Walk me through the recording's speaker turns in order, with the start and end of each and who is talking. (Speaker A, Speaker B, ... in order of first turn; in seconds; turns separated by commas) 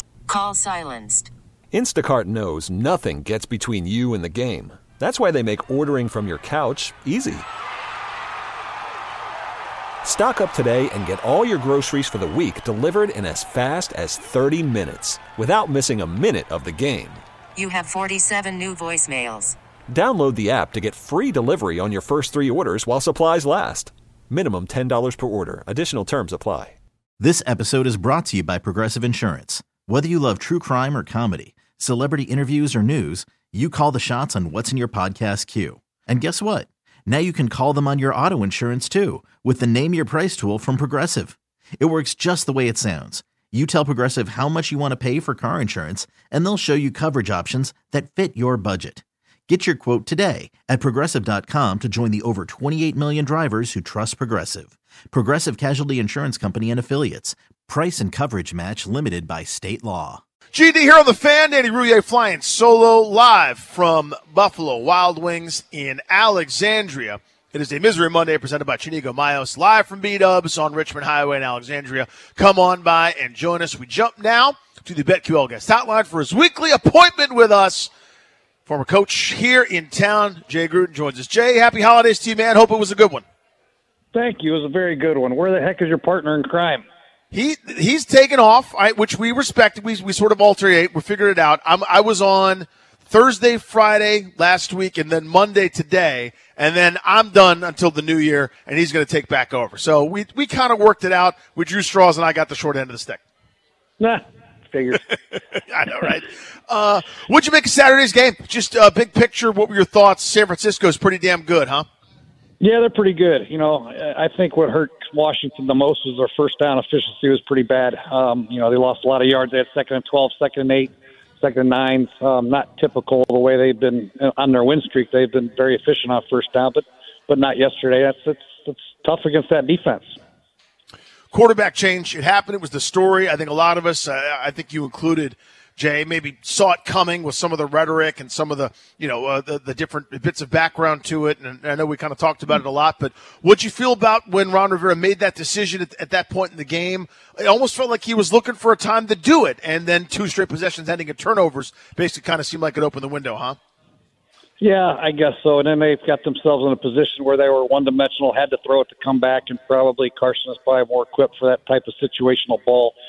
Speaker A: 0.3-1.3, Speaker B: 1.7-7.5, Speaker B: 10.0-17.2, Speaker A: 17.6-19.6, Speaker B: 19.9-26.8, Speaker C: 27.2-60.2, Speaker D: 60.5-77.9, Speaker D: 78.7-83.2, Speaker E: 84.1-86.8, Speaker D: 87.3-103.2, Speaker E: 104.0-105.0, Speaker D: 105.7-111.8, Speaker E: 112.6-130.1, Speaker D: 131.3-153.6, Speaker E: 154.6-162.9